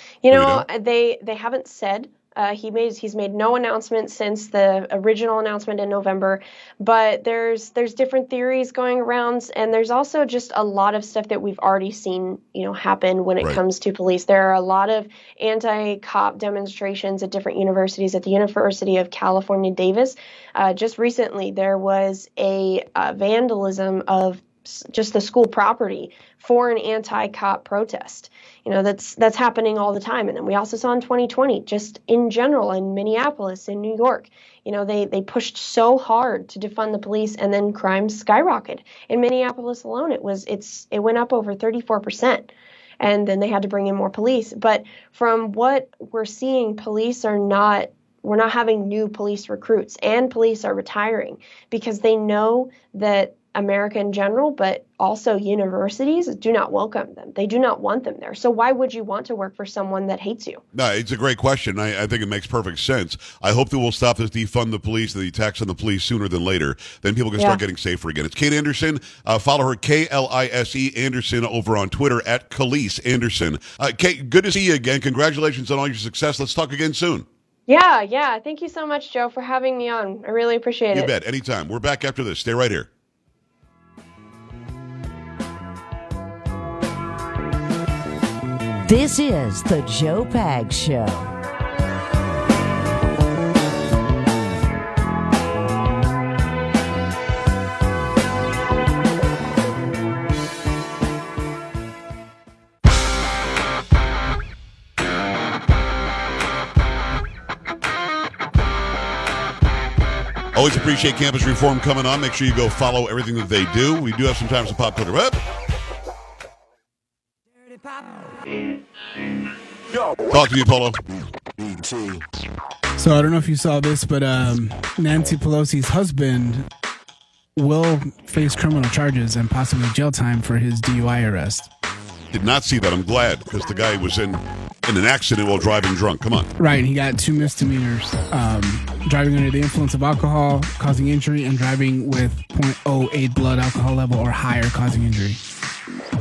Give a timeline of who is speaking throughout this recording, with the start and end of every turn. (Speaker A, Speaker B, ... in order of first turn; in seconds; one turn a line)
Speaker A: 0.2-42.5
Speaker B: 0.3-0.7
Speaker A: 43.0-60.6
Speaker B: 60.7-77.3
Speaker A: 77.7-81.1
Speaker B: 80.9-82.9
Speaker C: 88.8-91.3
Speaker B: 110.5-115.4
Speaker B: 120.3-121.0
Speaker D: 123.0-126.7
Speaker D: 127.6-131.7
Speaker B: 132.3-136.5
Speaker D: 136.6-145.4